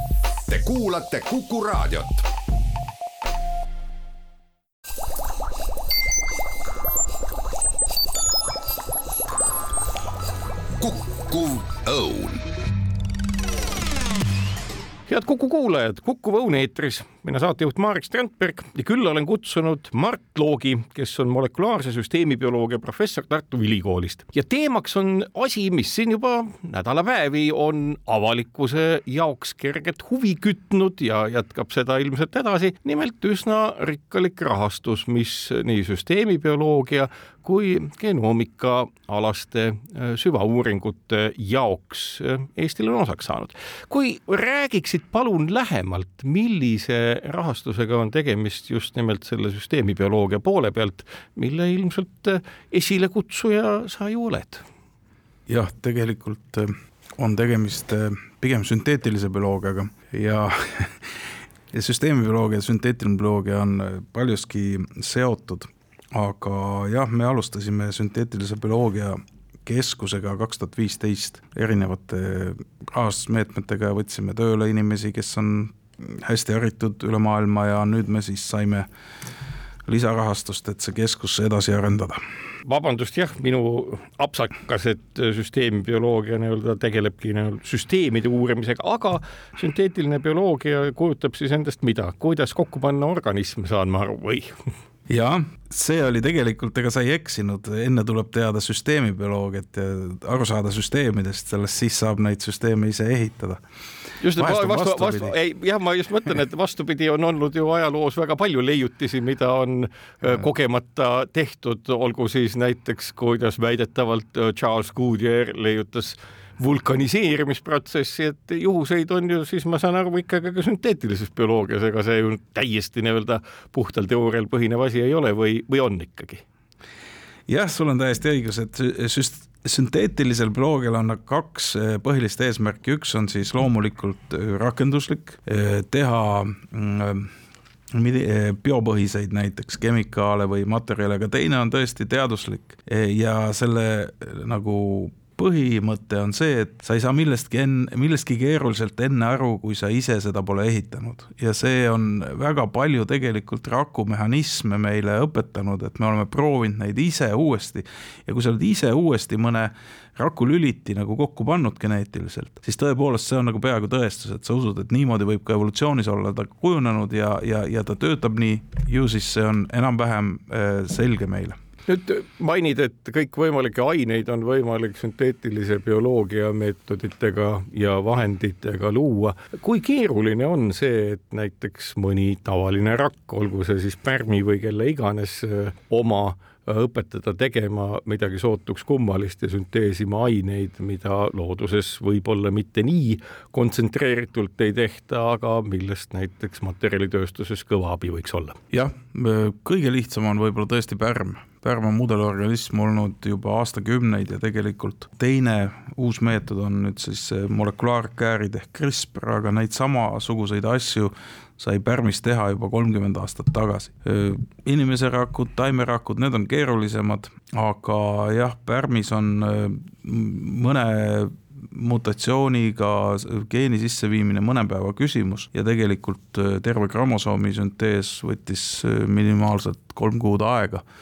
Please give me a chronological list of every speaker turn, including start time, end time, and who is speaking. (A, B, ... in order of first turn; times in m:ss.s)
0:00.5-0:02.2 A
0:10.8-0:12.5 A
0:15.1-0:54.6 B
0:55.5-1:01.1 C
1:01.7-1:18.9 C
1:19.9-1:22.2 C
1:22.6-1:34.5 B
1:35.1-1:43.6 C
1:44.2-2:06.4 B
1:44.3-1:45.3 C
2:07.5-2:17.3 C
2:17.9-2:51.6 C
2:51.9-3:18.6 B
3:18.7-3:50.8 C